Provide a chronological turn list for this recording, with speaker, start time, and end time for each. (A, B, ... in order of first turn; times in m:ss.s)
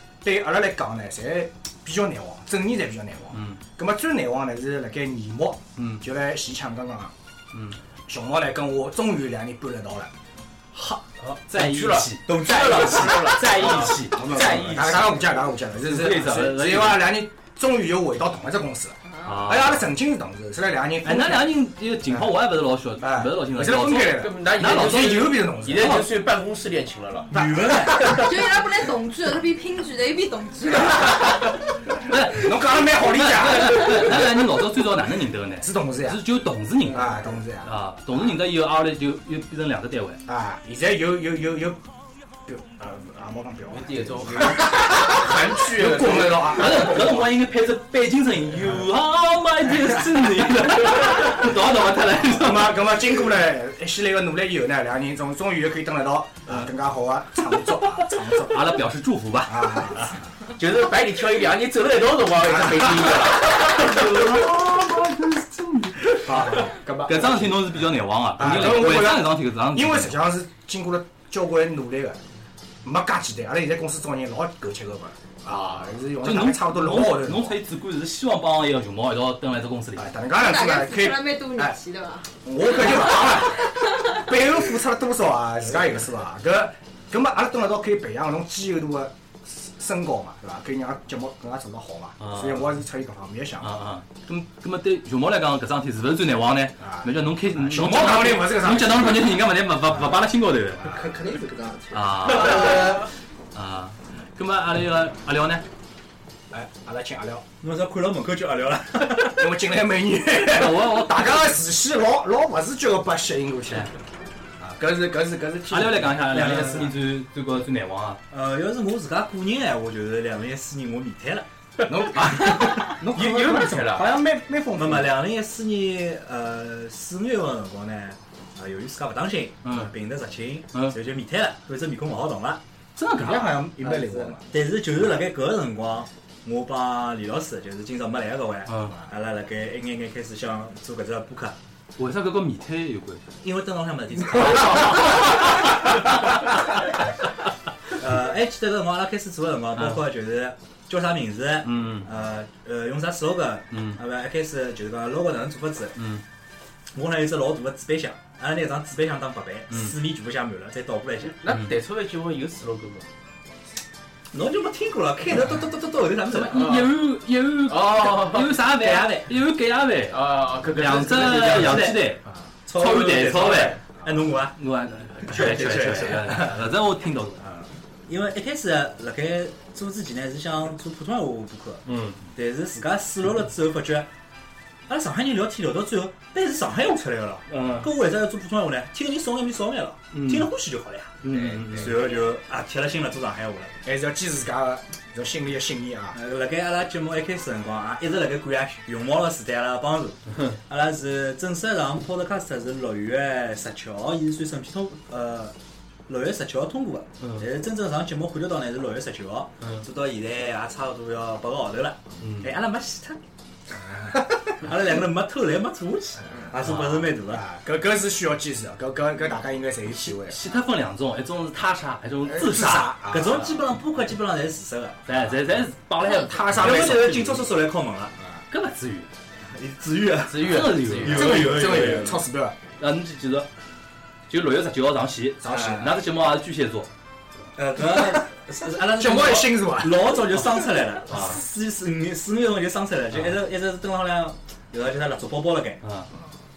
0:00.2-0:07.1 A
0:03.3-0:03.6 B
0:05.8-0:06.0 B
0:07.5-0:07.8 B
0:08.1-0:10.1 A
0:10.7-0:15.1 B
0:11.2-0:14.8 C
0:12.2-0:13.6 D
0:13.6-0:21.5 A
0:15.8-0:17.1 B
0:19.2-0:19.9 B
0:21.0-0:26.1 B
0:23.0-0:26.0 A
0:24.1-0:27.3 C
0:27.3-0:28.2 D
0:27.3-0:28.2 A
0:28.1-0:31.4 E
0:32.0-0:40.2 B
0:32.2-0:34.4 A
0:35.6-0:36.2 A
0:36.9-0:38.3 A
0:40.3-0:41.8 A
0:42.4-0:47.3 A
0:43.7-0:46.8 C
0:46.4-0:52.9 B
0:52.3-0:58.8 A
0:58.3-1:00.1 B
0:59.4-1:00.2 A
1:00.6-1:04.0 C
1:03.4-1:10.2 B
1:06.2-1:12.2 A
1:12.8-1:17.6 A
1:16.2-1:20.1 B
1:20.0-1:21.8 A
1:20.3-1:22.3 E
1:22.4-1:33.8 A
1:22.8-1:24.2 E
1:32.2-1:32.8 B
1:33.6-1:41.0 B
1:36.8-1:40.2 A
1:40.8-1:43.1 F
1:41.9-1:43.0 B
1:43.5-1:45.6 B
1:46.5-1:47.4 A
1:47.6-1:49.5 D
1:49.2-1:53.9 A
1:50.4-1:51.4 B
1:54.6-1:56.9 A
1:55.7-1:58.2 B
1:56.3-1:56.8 D
1:58.3-2:01.5 D
2:01.9-2:05.2 A
2:03.0-2:04.1 C
2:04.7-2:12.6 D
2:13.0-2:13.6 B
2:13.2-2:14.5 A
2:13.8-2:14.3 F
2:14.5-2:21.6 D
2:18.7-2:18.9 B
2:22.0-2:23.3 B
2:23.4-2:25.3 D
2:24.4-2:25.6 B
2:28.0-2:36.1 D
2:29.8-2:30.0 B
2:31.6-2:32.1 B
2:33.7-2:34.0 B
2:36.0-2:36.2 B
2:36.9-2:41.4 D
2:41.4-2:43.0 C
2:41.4-2:41.7 B
2:44.3-2:46.8 D
2:46.3-2:52.2 B
2:47.6-2:49.2 C
2:50.1-2:51.9 C
2:51.4-2:52.0 D
2:52.7-2:54.6 D
2:52.7-2:53.8 B
2:54.6-2:57.5 B
2:55.2-2:56.5 D
2:58.1-3:04.1 D
3:01.8-3:02.2 B
3:04.9-3:13.7 D
3:07.5-3:07.9 B
3:10.1-3:10.5 B
3:11.2-3:12.0 B
3:13.8-3:16.2 A
3:16.1-3:25.5 D
3:26.1-3:33.2 D
3:32.2-3:32.5 B
3:33.7-3:34.1 A
3:34.4-3:37.4 D
3:36.6-3:37.1 B
3:37.3-3:40.4 A
3:40.0-3:43.6 B
3:42.2-3:43.4 A
3:43.1-3:45.0 D
3:45.0-3:47.1 B
3:46.0-3:47.5 A
3:46.5-3:48.1 D
3:48.5-3:49.1 B
3:49.5-3:52.2 D
3:50.3-3:51.6 C
3:50.3-3:51.9 B
3:51.0-3:52.6 A
3:52.8-3:53.5 B
3:54.3-3:56.9 B
3:55.4-3:56.0 A
3:57.6-4:05.8 D
3:58.9-4:00.1 A
4:01.1-4:01.4 B
4:05.8-4:06.1 B